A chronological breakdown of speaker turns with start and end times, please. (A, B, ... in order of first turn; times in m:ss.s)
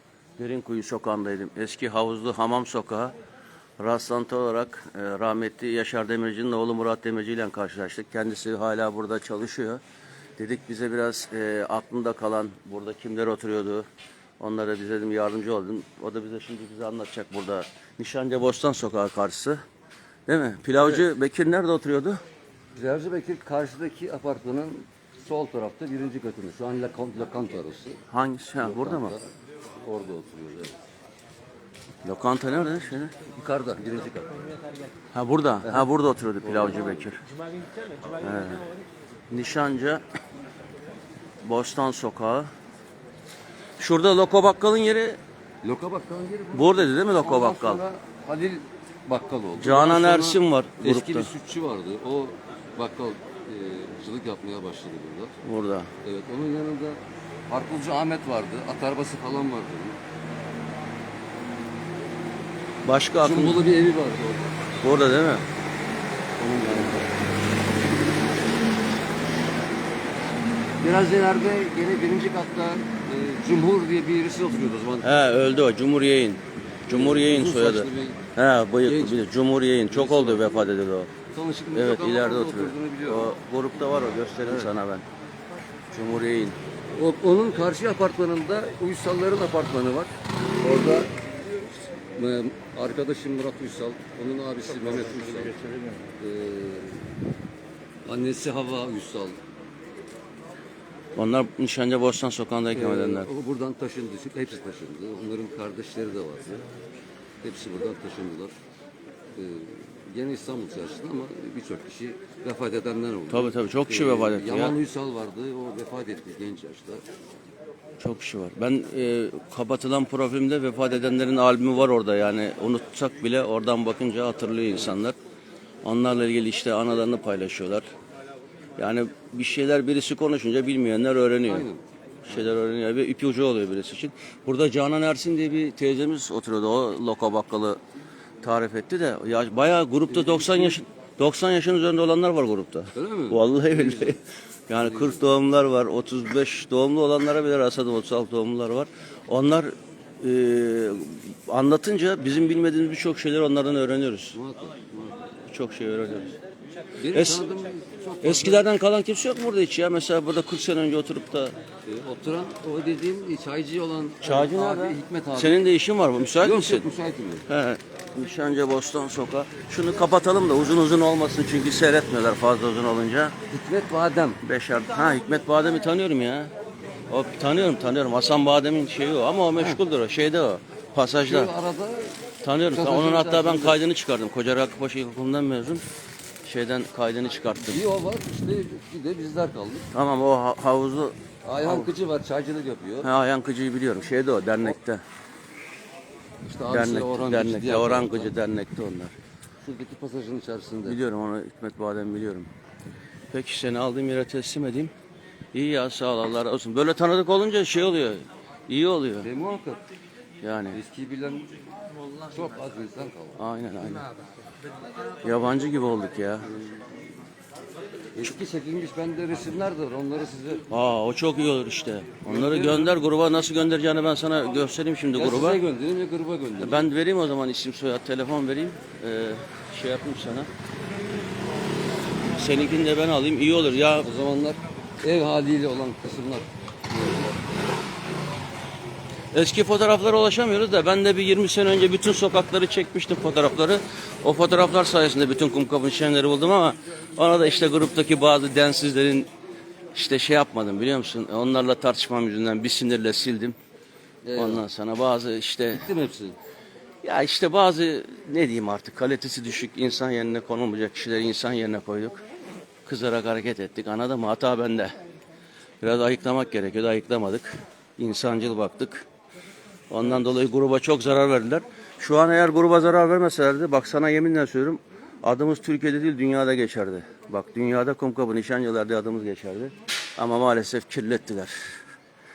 0:00.4-0:03.1 A
0:03.8-0:09.8 A
0:10.4-0:13.8 A
0:14.4-0:19.6 A
0:20.3-0:22.2 A
0:20.8-0:21.1 B
0:22.7-0:28.0 B
0:28.1-0:29.1 A
0:28.6-0:30.8 B
0:32.0-0:33.1 A
0:33.3-0:34.4 B
0:35.1-0:37.2 A
0:35.6-0:35.9 B
0:36.4-0:37.1 B
0:38.2-0:38.6 A
0:39.3-0:40.0 A
0:41.4-0:42.5 A
0:43.8-0:45.2 A
0:45.6-0:55.3 B
0:46.5-0:47.8 A
0:49.6-0:51.3 A
0:55.4-0:55.9 A
0:56.0-1:00.0 B
1:02.8-1:03.6 A
1:03.2-1:04.5 B
1:04.8-1:05.4 A
1:06.4-1:07.0 B
1:10.8-1:15.1 B
1:15.0-1:21.1 A
1:16.9-1:18.2 B
1:18.8-1:19.3 B
1:19.9-1:20.7 B
1:21.3-1:23.3 B
1:21.7-1:25.0 A
1:24.4-1:24.7 B
1:25.9-1:26.6 A
1:26.9-1:31.1 B
1:32.0-1:37.1 B
1:38.0-1:39.4 B
1:41.2-1:43.3 A
1:42.7-1:46.6 B
1:47.4-1:48.5 B
1:49.3-1:57.0 B
1:53.3-1:54.8 A
1:58.0-2:05.2 A
2:05.8-2:07.9 A
2:08.8-2:11.7 A
2:11.4-2:11.8 B
2:12.2-2:17.8 A
2:18.4-2:34.4 A
2:20.1-2:20.8 B
2:22.9-2:24.2 B
2:24.8-2:25.2 B
2:34.3-2:35.2 B
2:35.5-2:36.4 A
2:37.0-2:38.7 B
2:37.1-2:37.4 A
2:38.2-2:41.5 A
2:41.9-2:45.7 B
2:44.2-2:46.9 A
2:46.4-2:47.4 B
2:47.5-2:53.3 A
2:53.5-2:54.4 B
2:54.4-2:56.5 A
2:57.1-3:01.5 A
2:59.6-2:59.8 B
3:01.2-3:03.8 B
3:02.4-3:05.8 A
3:06.4-3:07.8 A
3:07.7-3:09.9 B
3:09.9-3:11.9 A
3:11.4-3:13.1 B
3:13.0-3:15.0 A
3:16.4-3:18.3 B
3:16.7-3:19.1 A
3:19.6-3:21.0 B
3:20.8-3:22.5 A
3:23.3-3:24.9 A
3:25.5-3:29.3 A
3:29.2-3:29.8 B
3:30.4-3:30.8 A
3:30.7-3:33.4 B
3:33.4-3:34.1 A
3:35.2-3:36.5 A
3:38.1-3:40.6 B
3:40.7-3:45.6 A
3:42.2-3:43.0 B
3:45.1-3:46.9 B
3:46.6-3:50.5 A
3:52.3-3:54.1 A
3:54.0-3:57.5 B
3:59.3-4:09.3 A
4:09.9-4:13.6 A
4:14.2-4:14.6 B
4:14.3-4:15.9 A
4:15.7-4:16.4 B
4:17.0-4:22.2 A
4:22.8-4:24.9 A
4:25.8-4:29.1 A
4:29.9-4:41.5 A